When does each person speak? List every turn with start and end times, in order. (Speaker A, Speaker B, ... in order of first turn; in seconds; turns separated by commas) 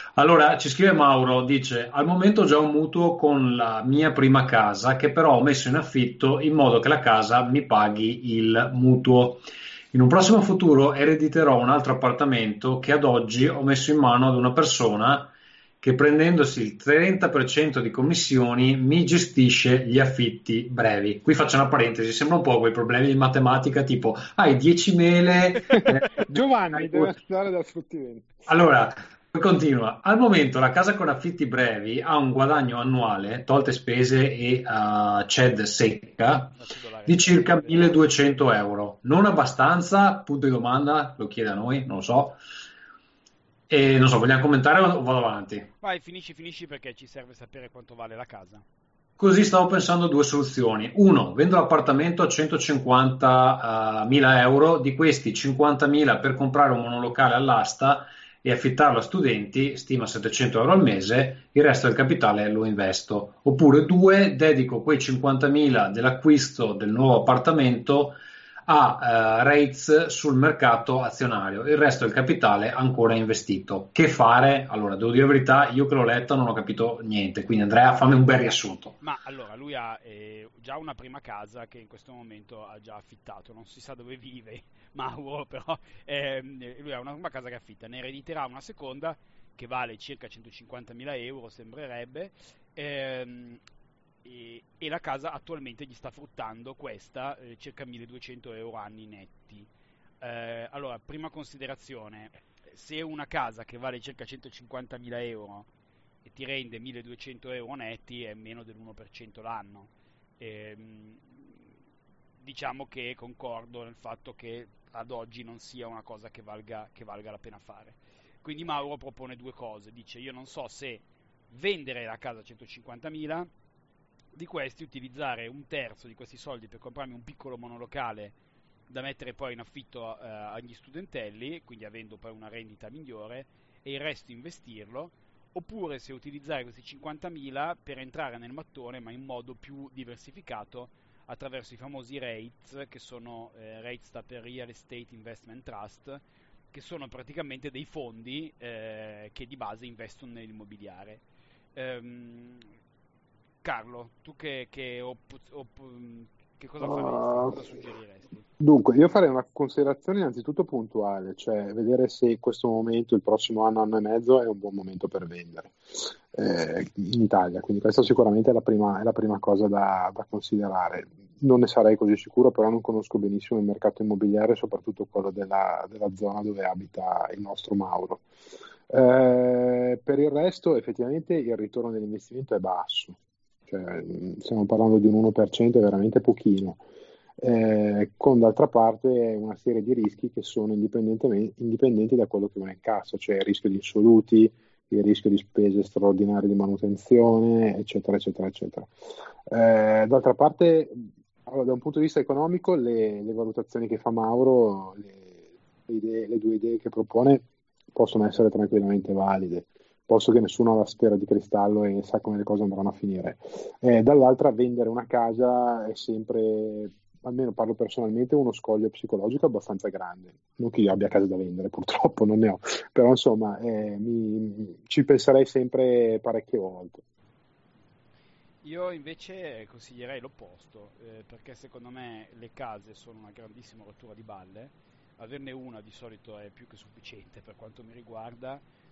Speaker A: 0.2-27.2, Speaker B: 25.8-28.4, Speaker A: 28.5-42.4, Speaker C: 36.6-38.0, Speaker A: 43.7-45.7, Speaker C: 45.8-48.6, Speaker A: 49.2-79.0, Speaker C: 79.0-93.6, Speaker C: 94.2-99.7, Speaker C: 100.2-105.7, Speaker C: 106.2-111.6, Speaker C: 112.4-123.5, Speaker C: 124.3-128.3, Speaker C: 128.9-146.2, Speaker C: 146.7-151.2, Speaker C: 151.8-152.7, Speaker C: 153.6-158.5, Speaker B: 156.8-157.6, Speaker B: 158.6-178.2, Speaker B: 178.9-186.8, Speaker B: 187.4-198.9, Speaker B: 199.5-227.0, Speaker C: 228.6-238.6